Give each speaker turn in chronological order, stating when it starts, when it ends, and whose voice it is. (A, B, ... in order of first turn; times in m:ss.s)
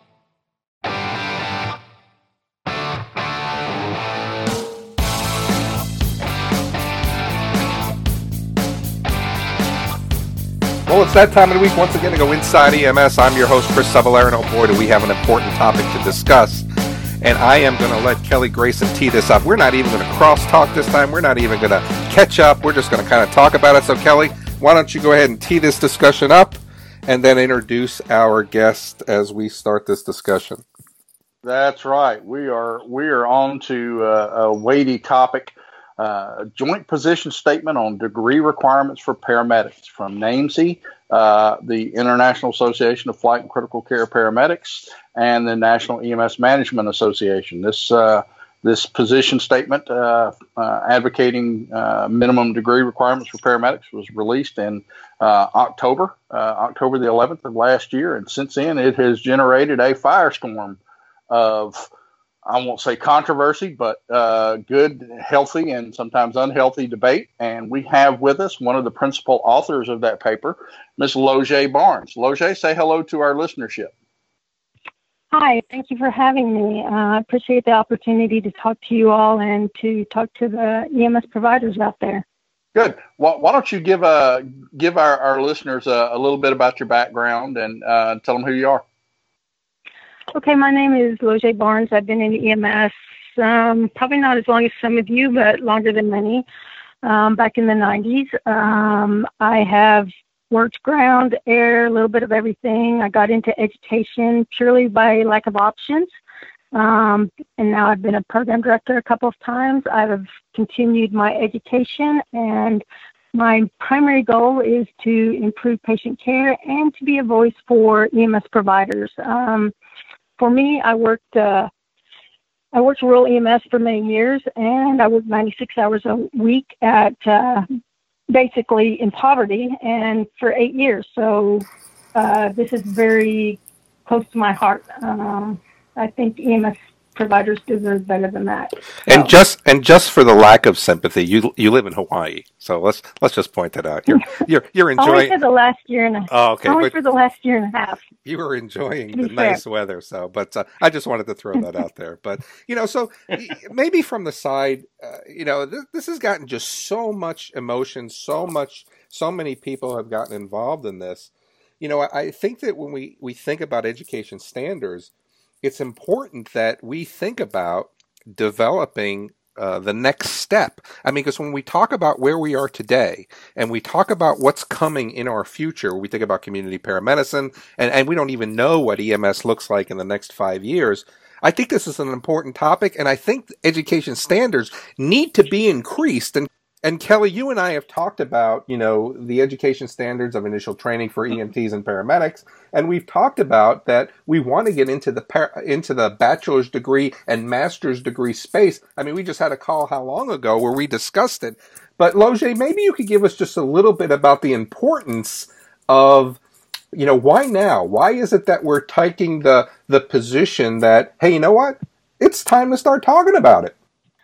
0:10.9-0:16.7 A
0:17.2-0:30.6 A
0:31.4-1:00.8 B
1:01.3-1:01.9 B
1:02.5-1:13.9 B
1:15.3-1:22.2 C
1:22.8-1:28.8 B
1:30.3-1:36.4 C
1:37.0-1:46.1 C
1:46.7-1:52.8 C
1:53.3-1:59.7 C
2:00.4-2:01.7 C
2:02.7-2:07.7 C
2:08.3-2:19.3 C
2:19.1-2:25.3 A
2:25.0-2:28.0 C
2:26.3-2:26.9 A
2:28.2-2:45.1 A
2:29.2-2:29.6 C
2:45.6-3:26.4 A
3:26.9-3:33.7 A